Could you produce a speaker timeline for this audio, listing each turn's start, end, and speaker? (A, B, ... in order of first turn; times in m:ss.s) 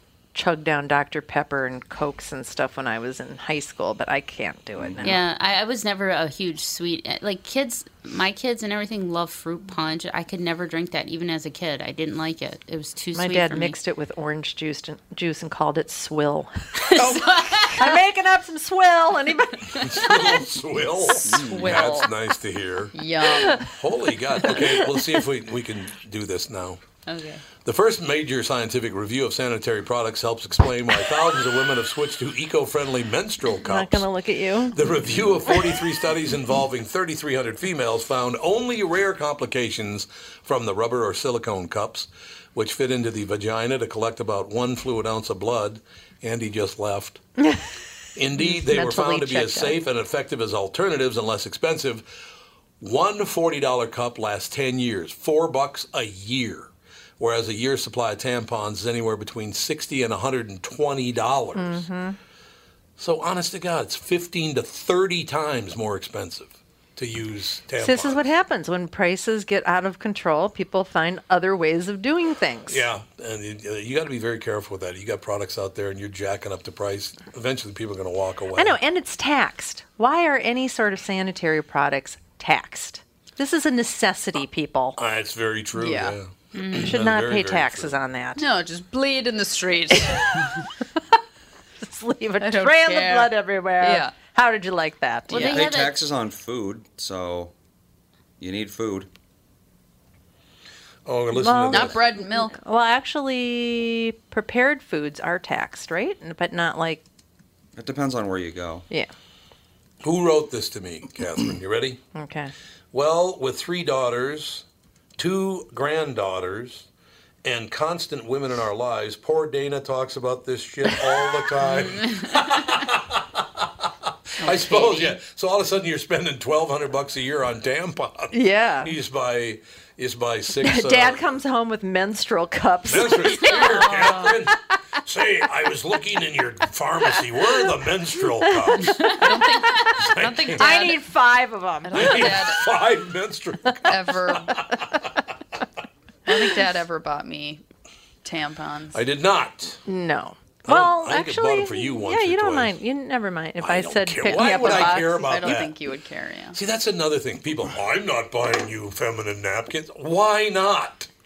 0:00.3-0:05.2 A
0:04.8-0:05.0 B
0:05.0-0:13.8 C
0:13.2-0:17.0 A
0:16.9-0:18.0 C
0:17.0-0:17.7 D
0:17.8-0:19.9 A
0:19.7-0:23.0 E
0:21.0-0:22.1 D
0:21.2-0:22.0 B
0:22.9-0:23.7 D
0:23.6-0:26.8 E
0:24.5-0:24.8 A
0:27.1-0:27.4 C
0:27.6-0:34.1 E
0:33.7-0:34.8 A
0:34.7-0:47.2 E
0:48.2-0:52.1 E
0:48.4-0:49.8 A
0:52.8-1:01.8 E
1:01.6-1:02.2 A
1:03.0-1:08.3 E
1:07.8-1:12.9 A
1:12.7-1:18.8 E
1:18.6-1:25.0 A
1:25.0-1:28.0 E
1:25.8-1:26.2 D
1:26.5-1:27.0 C
1:26.8-1:28.4 A
1:28.4-1:30.4 D
1:30.0-1:30.5 A
1:31.8-1:35.6 A
1:32.4-1:34.1 D
1:35.3-1:36.1 C
1:35.4-1:37.5 B
1:38.4-1:39.1 B
1:41.0-1:42.0 E
1:41.4-1:47.0 A
1:41.7-1:42.6 D
1:47.8-1:48.9 B
1:50.0-1:52.0 E
1:52.2-1:52.5 A
1:52.9-1:54.6 E
1:55.2-1:56.9 E
1:57.4-2:11.2 E
2:02.0-2:02.5 C
2:04.5-2:05.0 D
2:04.7-2:05.1 C
2:08.3-2:08.9 A
2:10.6-2:14.2 A
2:12.9-2:19.1 E
2:13.4-2:13.8 C
2:18.4-2:19.1 A
2:19.0-2:21.0 D
2:19.1-2:19.9 C
2:20.0-2:20.9 E
2:20.6-2:22.3 A
2:21.8-2:22.7 D
2:21.9-2:25.3 E
2:23.9-2:24.6 D
2:26.3-2:27.6 D
2:28.2-2:29.0 D
2:28.9-2:29.8 E
2:29.9-2:35.1 A
2:30.7-2:32.8 E
2:33.6-2:35.8 E
2:34.3-2:36.6 D
2:36.5-2:41.1 E